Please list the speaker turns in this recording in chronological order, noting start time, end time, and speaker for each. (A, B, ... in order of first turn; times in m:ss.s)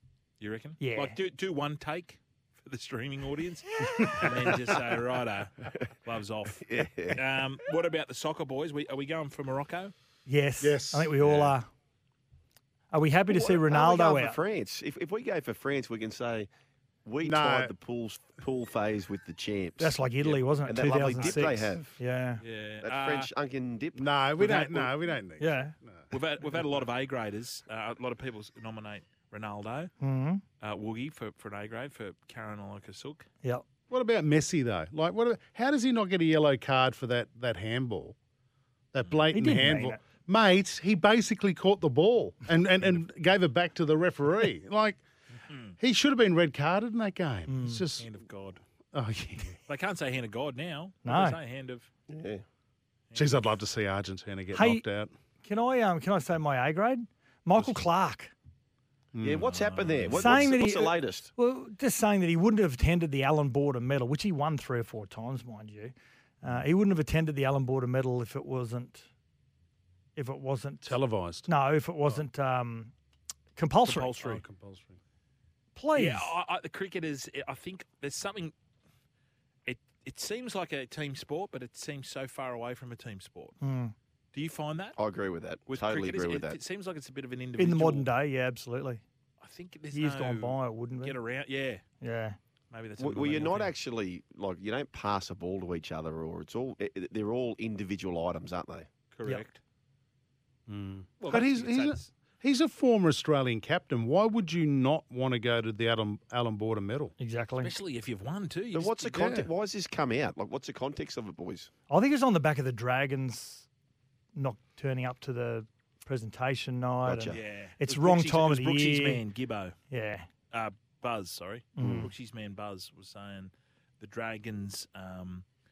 0:00.4-0:09.9 A
0:00.8-0:01.2 B
0:06.6-0:07.2 C
0:10.2-0:11.7 B
0:10.6-0:11.2 D
0:12.9-0:14.4 B
0:13.3-0:16.5 C
0:17.0-0:22.0 C
0:17.2-0:17.7 D
0:19.8-0:22.4 B
0:22.4-0:23.3 A
0:22.8-0:24.1 C
0:23.9-0:26.0 D
0:24.4-0:24.9 A
0:25.4-0:25.7 B
0:26.1-0:29.9 A
0:30.0-0:30.4 B
0:30.6-0:33.3 A
0:33.9-0:38.2 D
0:38.9-0:45.0 D
0:39.3-0:40.0 B
0:45.5-0:45.7 A
0:45.8-0:48.1 D
0:47.5-0:47.8 B
0:48.0-0:48.6 A
0:48.9-0:49.6 D
0:49.6-0:51.9 A
0:51.0-0:51.4 B
0:52.1-0:52.4 C
0:53.1-0:53.5 A
0:53.1-0:55.1 D
0:54.5-0:54.8 B
0:55.4-0:58.3 B
0:57.6-0:57.8 A
0:59.1-0:59.4 D
0:59.2-1:01.3 C
0:59.4-1:00.5 A
1:00.1-1:09.1 B
1:10.2-1:12.9 B
1:10.8-1:11.5 D
1:13.6-1:14.1 B
1:13.8-1:14.4 A
1:14.2-1:15.0 D
1:15.7-1:16.3 B
1:15.9-1:18.5 A
1:19.6-1:23.6 A
1:23.6-1:23.9 B
1:24.3-1:25.0 A
1:25.0-1:26.6 C
1:25.7-1:28.1 A
1:27.6-1:29.0 B
1:29.4-1:31.8 A
1:29.9-1:31.2 B
1:32.0-1:32.4 B
1:32.7-1:33.7 A
1:33.0-1:38.9 C
1:39.1-1:39.6 A
1:40.7-1:47.1 D
1:41.2-1:42.1 A
1:47.2-1:47.7 B
1:47.6-1:49.2 A
1:48.7-1:51.7 C
1:49.1-1:49.5 D
1:51.9-1:53.7 B
1:54.3-1:59.2 B
1:57.0-1:57.4 C
1:57.3-1:59.7 A
1:59.9-2:00.3 B
2:00.5-2:05.4 A
2:01.8-2:02.1 B
2:01.8-2:02.1 C